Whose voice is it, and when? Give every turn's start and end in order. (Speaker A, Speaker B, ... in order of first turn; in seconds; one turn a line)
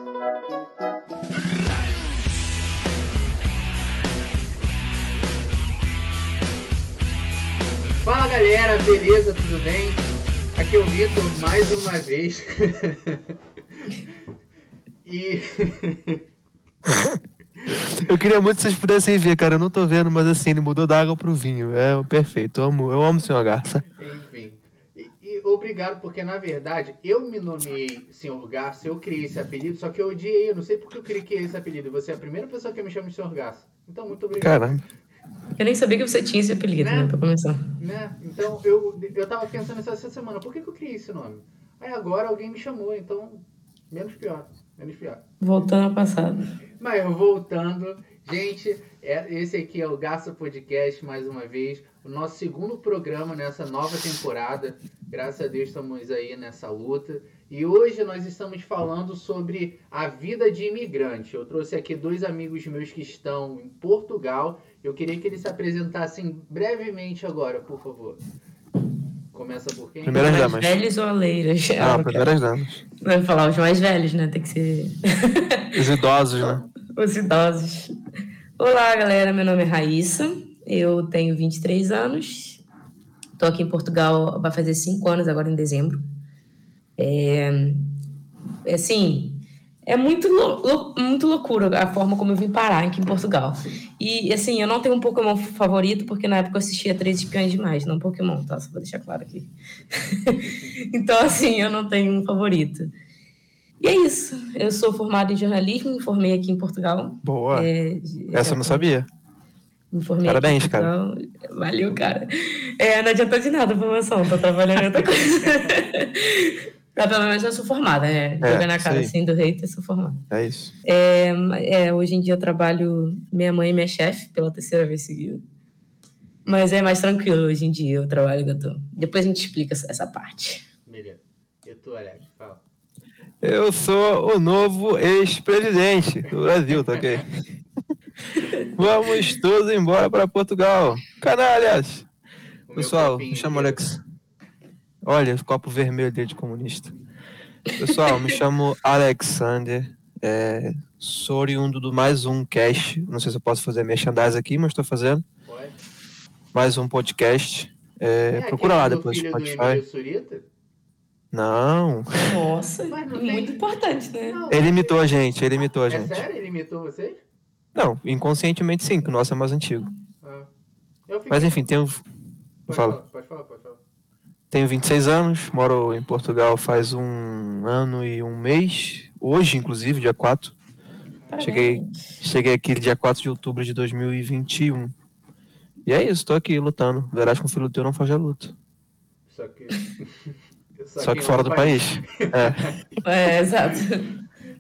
Speaker A: 8.0-13.2
Speaker A: 15.1-16.2
Speaker B: 17.9-23.8
Speaker A: 24.0-34.8
Speaker B: 34.4-34.8
Speaker C: 35.6-37.6
Speaker A: 36.8-37.1
Speaker A: 37.8-45.2
Speaker C: 45.4-46.5
Speaker A: 46.8-68.2
Speaker A: 69.3-70.4
Speaker B: 70.0-70.7
Speaker C: 70.1-72.3
Speaker B: 71.8-72.8
Speaker C: 73.0-75.7
Speaker B: 75.7-76.6
Speaker C: 76.9-77.9
Speaker C: 78.6-82.6
Speaker C: 83.4-86.0
Speaker C: 87.0-88.0
Speaker C: 88.7-102.9
Speaker C: 103.8-108.9
Speaker B: 107.2-107.7
Speaker B: 108.3-109.1
Speaker C: 109.9-120.2
Speaker B: 110.2-110.9
Speaker A: 115.4-115.7
Speaker B: 118.4-119.1
Speaker B: 120.3-120.7
Speaker C: 120.8-125.4
Speaker C: 126.5-130.6
Speaker A: 130.9-132.6
Speaker B: 133.4-137.2
Speaker B: 138.8-142.1
Speaker A: 142.7-143.8
Speaker B: 142.8-144.0
Speaker B: 145.0-146.9
Speaker B: 147.8-155.2
Speaker C: 147.9-148.3
Speaker A: 155.4-155.8
Speaker B: 156.5-159.8
Speaker A: 158.3-160.4
Speaker B: 161.3-162.4
Speaker C: 162.2-164.4
Speaker A: 162.9-163.7
Speaker A: 164.2-165.1
Speaker B: 164.5-166.2
Speaker A: 165.9-167.2
Speaker B: 167.8-169.9
Speaker A: 170.2-170.5
Speaker A: 171.1-171.6
Speaker B: 171.3-172.0
Speaker B: 172.7-173.0
Speaker A: 172.7-173.8
Speaker B: 174.5-180.6
Speaker C: 181.3-182.1
Speaker B: 181.4-184.9
Speaker B: 185.9-188.6
Speaker A: 189.3-192.8
Speaker B: 191.0-192.7
Speaker C: 193.0-194.1